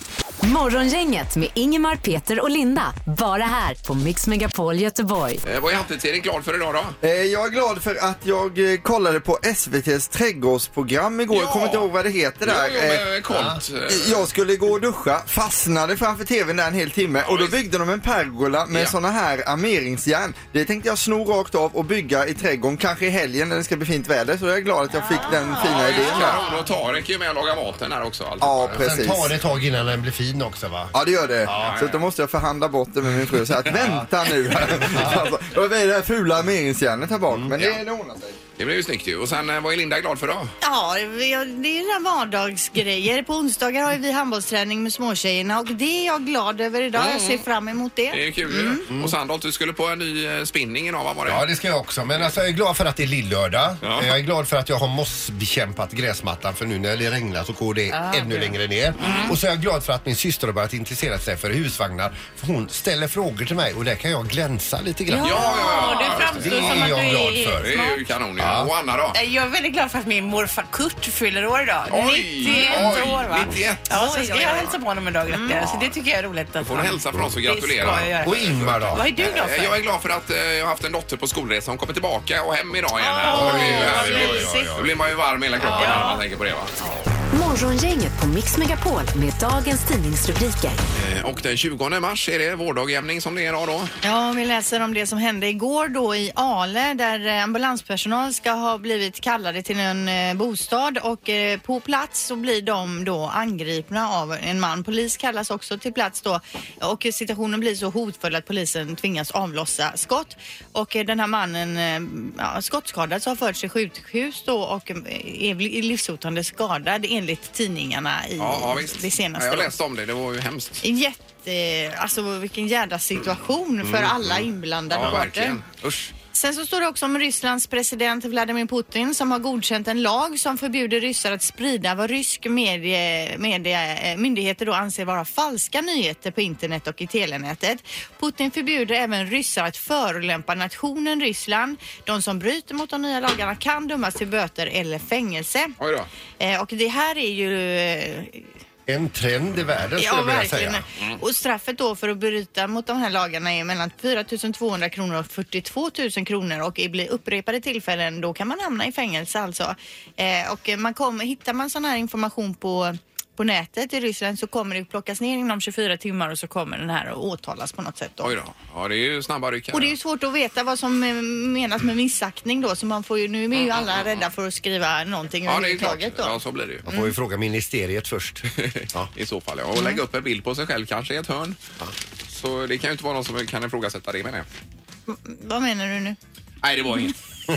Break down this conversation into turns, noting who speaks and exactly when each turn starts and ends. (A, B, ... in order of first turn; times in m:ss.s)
0:00.4-0:05.4 A
0:05.4-0:07.0 B
0:07.0-0:13.1 C
0:11.3-0:11.9 B
0:12.4-0:14.3 B
0:13.3-0:13.6 D
0:13.9-0:26.4 C
0:17.2-0:17.6 B
0:24.9-0:26.7 E
0:25.6-0:28.9 B
0:28.4-0:29.3 C
0:28.6-0:30.9 D
0:30.9-0:38.4 C
0:31.4-0:32.0 B
0:33.8-0:34.1 D
0:34.6-0:34.9 B
0:34.8-0:35.2 D
0:37.3-0:37.6 D
0:37.5-0:37.8 B
0:38.6-0:40.5 B
0:40.6-0:48.8 E
0:47.0-0:47.4 B
0:48.1-0:51.4 B
0:48.9-0:49.2 D
0:51.3-1:07.8 D
0:53.8-0:54.1 B
0:57.9-0:58.5 E
0:59.1-0:59.3 E
1:05.1-1:07.9 E
1:05.2-1:09.2 B
1:08.4-1:08.7 D
1:10.6-1:15.9 E
1:11.9-1:14.8 B
1:12.4-1:13.4 F
1:13.9-1:16.0 F
1:15.5-1:15.9 B
1:16.6-1:26.8 B
1:17.1-1:19.1 D
1:17.4-1:18.4 F
1:19.1-1:19.8 F
1:19.2-1:19.5 E
1:23.0-1:24.7 E
1:23.2-1:25.1 D
1:25.6-1:26.2 E
1:25.8-1:26.1 D
1:27.3-1:30.8 A
1:30.9-1:33.9 B
1:34.0-1:59.7 E
1:58.4-2:00.8 B
2:00.8-2:05.6 E
2:03.8-2:04.4 D
2:04.9-2:06.1 B
2:06.3-2:25.8 E
2:25.8-2:26.1 B
2:26.4-2:28.5 E
2:28.9-2:30.8 D
2:30.0-2:48.3 E
2:48.2-2:50.0 B
2:49.7-2:57.1 E
2:53.5-2:54.3 B
2:55.4-2:56.9 B
2:56.9-2:59.1 D
2:58.5-3:01.6 B
2:59.8-3:00.0 E
3:02.3-3:04.5 B
3:05.1-3:06.2 E
3:06.6-3:07.2 B